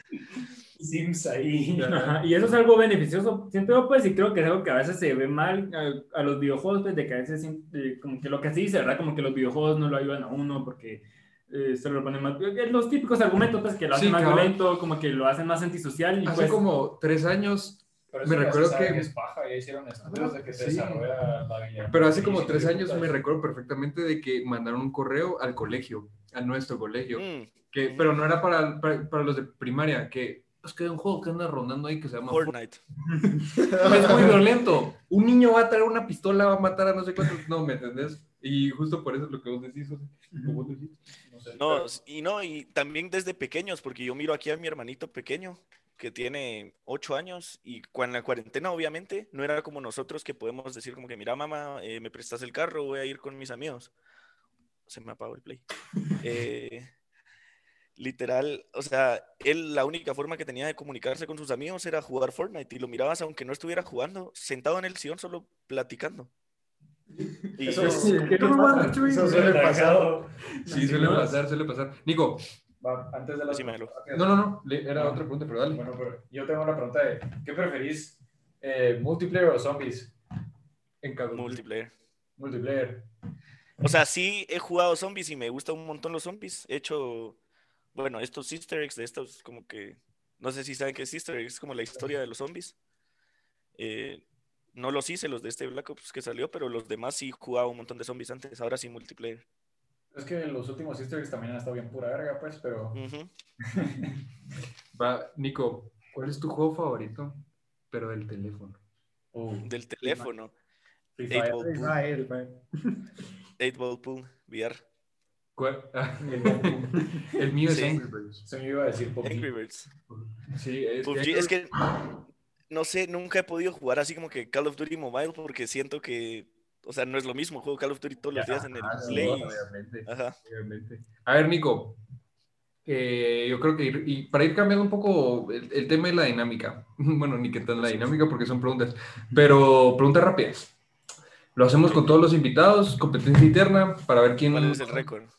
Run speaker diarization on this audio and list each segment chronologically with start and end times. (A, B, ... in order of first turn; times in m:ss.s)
0:00.8-0:02.0 A
0:01.8-0:02.2 B
0:01.8-0:16.6 C
0:13.9-0:14.6 B
0:16.2-0:19.1 B
0:18.1-0:23.2 A
0:20.0-0:21.1 B
0:21.9-0:32.6 B
0:27.1-0:28.1 D
0:32.3-0:32.8 D
0:33.6-0:34.4 E
0:33.8-0:41.0 B
0:40.3-0:40.6 C
0:41.3-0:41.9 A
0:41.6-0:53.9 D
0:54.9-0:56.9 D
0:58.0-1:06.3 D
1:07.1-1:11.4 A
1:07.6-1:08.2 D
1:07.8-1:09.7 B
1:09.0-1:10.1 E
1:10.7-1:12.5 B
1:12.8-1:20.1 A
1:13.5-1:14.0 D
1:14.1-1:15.8 B
1:21.0-1:21.6 B
1:21.3-1:21.9 D
1:22.4-1:23.1 A
1:23.8-1:27.4 D
1:28.0-1:32.8 D
1:33.8-1:34.2 D
1:34.8-1:39.4 D
1:40.1-1:43.0 A
1:42.9-1:43.3 D
1:43.6-1:44.1 A
1:44.9-1:48.8 B
1:49.3-1:50.3 A
1:49.6-1:50.5 D
1:51.2-1:51.9 A
1:51.3-1:51.9 D
1:51.6-1:52.3 E
1:52.3-1:52.6 B
1:53.6-1:54.8 D
1:55.6-1:58.5 B
1:56.2-1:57.4 A
1:57.7-1:58.0 D
1:58.4-1:59.5 A
1:59.2-1:59.9 D
2:00.1-2:01.5 B
2:01.0-2:01.8 D
2:02.7-2:10.4 D
2:08.4-2:12.0 B
2:09.0-2:09.5 A
2:12.9-2:20.7 B
2:17.8-2:18.2 D
2:21.6-2:25.1 B
2:21.8-2:22.2 D
2:24.5-2:25.3 D